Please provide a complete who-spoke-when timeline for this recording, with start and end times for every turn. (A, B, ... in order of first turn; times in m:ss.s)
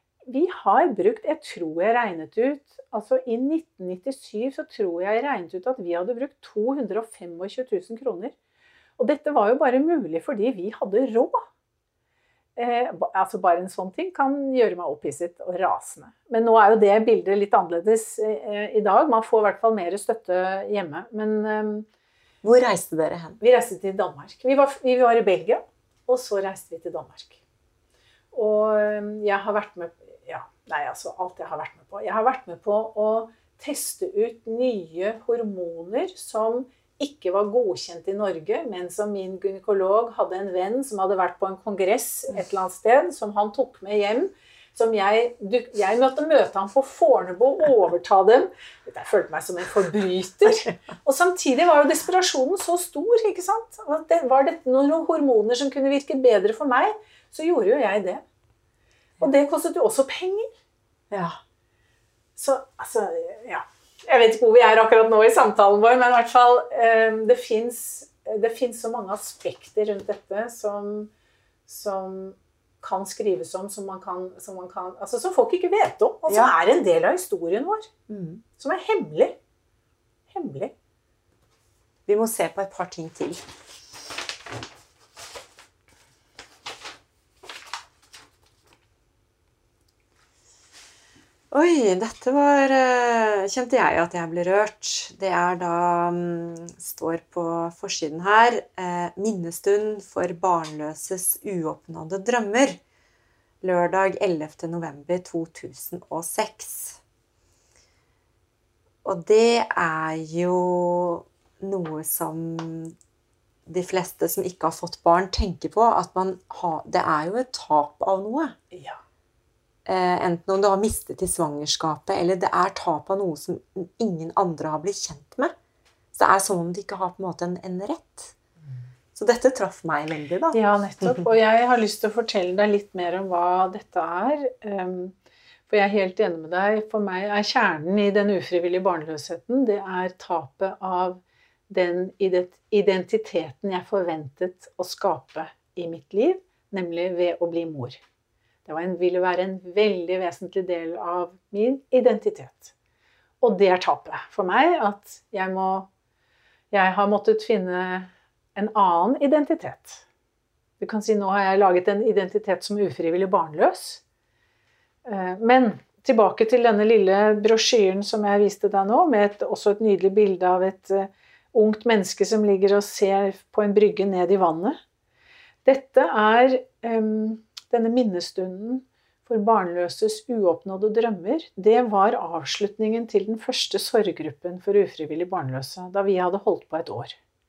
0:00.3-0:08.4 A
0:09.0-0:11.4 A
0:12.6-0:21.9 A
0:22.4-0:23.4 B
0:23.4-0:27.4 A
0:28.3-0:58.2 A
0:59.2-1:00.5 A
1:01.1-1:01.4 B
1:02.4-1:11.1 A
1:11.7-1:17.9 A
1:18.1-1:18.4 B
1:18.6-1:19.4 A
1:20.3-1:20.7 A
1:22.1-1:23.4 B
1:31.5-1:42.8 B
1:43.6-1:47.0 B
1:49.0-1:53.0 B
1:53.7-1:58.6 B
1:58.7-1:59.0 A
1:59.9-2:05.5 B
2:06.1-2:08.4 B
2:09.2-2:11.2 B
2:10.5-2:15.2 A
2:15.7-2:28.0 A
2:28.6-2:32.7 A
2:33.4-2:35.9 A
2:36.7-2:40.0 A
2:40.8-2:44.0 A
2:45.0-2:54.8 A
2:55.6-3:07.2 A